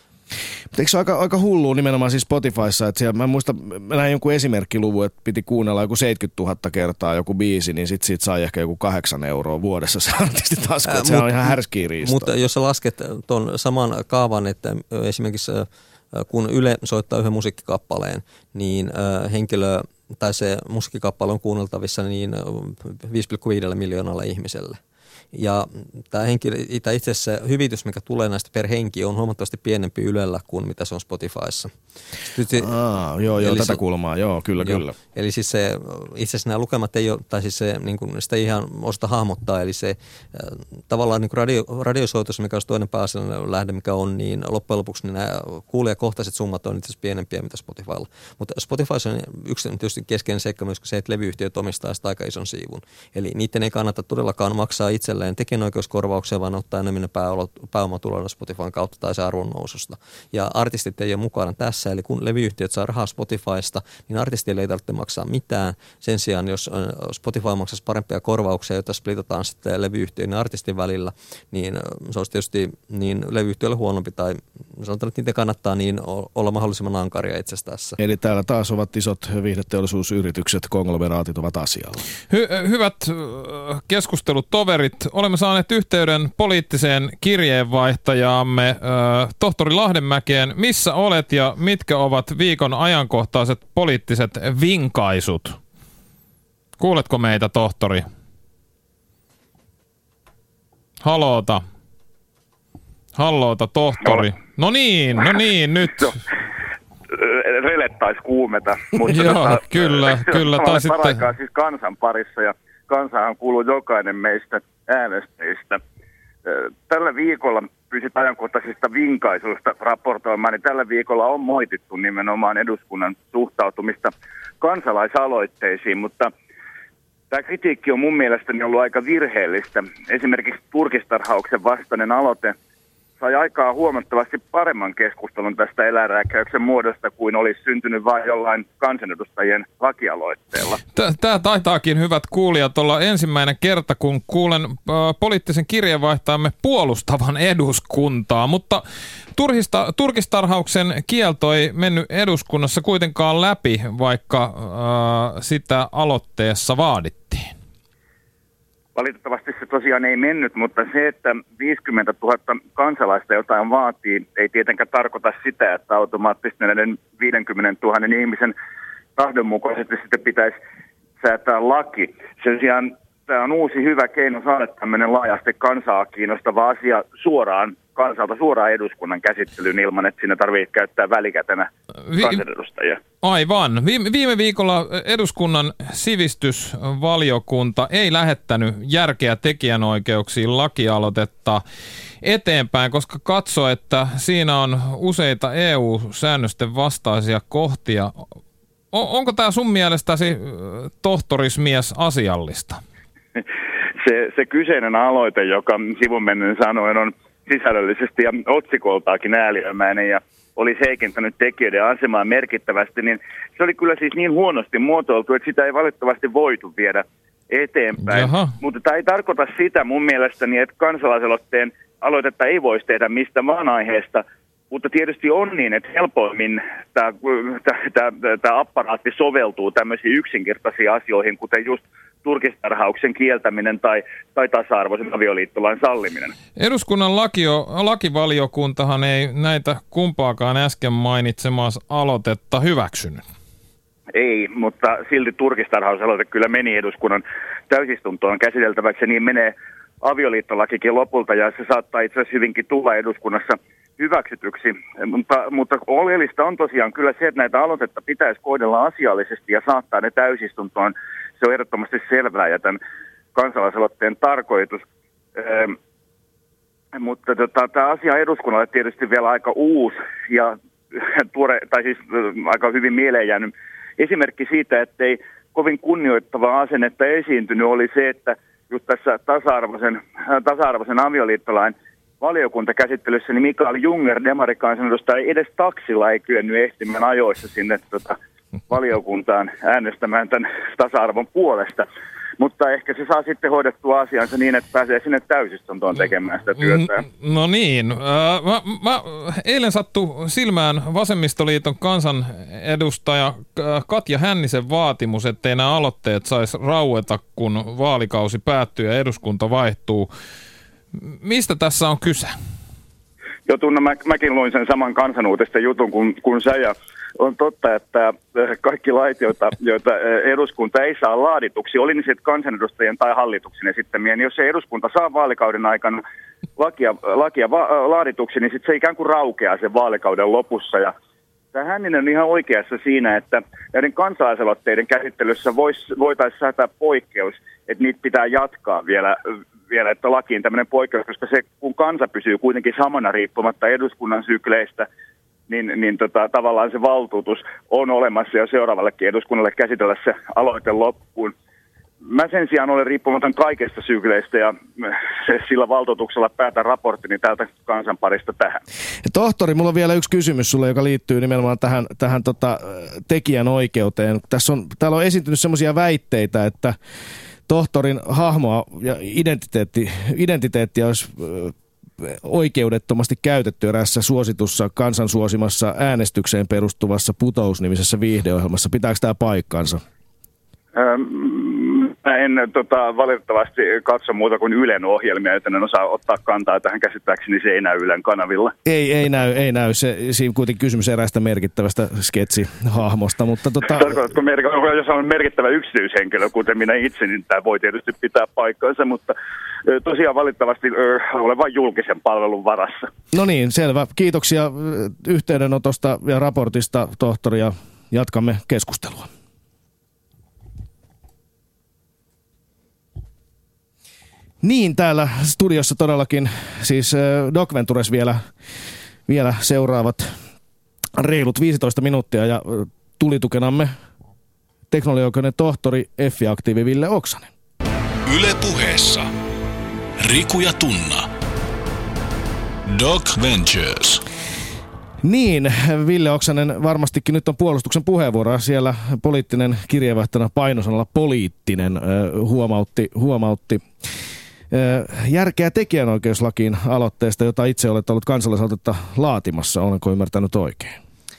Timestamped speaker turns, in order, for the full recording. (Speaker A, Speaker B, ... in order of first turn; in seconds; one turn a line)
Speaker A: 0.7-12.3
Speaker B: 10.8-24.8
Speaker B: 25.3-31.7
Speaker B: 32.2-32.7
Speaker A: 32.5-35.0
Speaker B: 33.4-33.8
Speaker B: 34.6-78.0
Speaker A: 78.0-82.0
Speaker C: 82.3-95.6
Speaker C: 96.8-98.1
Speaker C: 101.0-101.6
Speaker C: 103.2-106.2
Speaker D: 107.1-115.8
Speaker C: 109.1-111.3
Speaker D: 116.5-126.3
Speaker D: 127.3-132.6
Speaker D: 133.2-140.8
Speaker C: 140.9-148.8
Speaker C: 149.3-157.5
Speaker D: 158.9-168.5
Speaker D: 169.2-170.6
Speaker D: 171.2-183.0
Speaker C: 182.1-182.4
Speaker C: 183.2-191.6
Speaker C: 192.2-198.2
Speaker C: 198.9-202.8
Speaker D: 204.0-236.3
Speaker C: 218.1-218.5
Speaker C: 236.6-243.2
Speaker D: 244.1-262.8
Speaker D: 263.4-264.8
Speaker D: 265.4-265.8
Speaker D: 266.9-288.2
Speaker D: 288.7-291.9
Speaker D: 292.4-297.0
Speaker C: 296.6-310.1
Speaker C: 310.9-312.4
Speaker D: 313.5-326.0
Speaker D: 326.6-330.9
Speaker D: 331.5-339.2
Speaker D: 339.7-344.9
Speaker D: 345.5-351.3
Speaker D: 352.0-358.6
Speaker A: 359.1-366.8
Speaker A: 367.5-379.8
Speaker D: 380.8-388.5
Speaker A: 388.6-394.0
Speaker D: 393.7-399.2
Speaker D: 399.7-402.9
Speaker A: 403.1-409.1
Speaker A: 414.4-418.3
Speaker A: 419.1-420.1
Speaker A: 420.9-423.7
Speaker A: 424.7-427.3
Speaker E: 428.1-429.1
Speaker E: 430.0-431.1
Speaker E: 432.7-434.0
Speaker A: 435.0-443.7
Speaker A: 444.5-450.8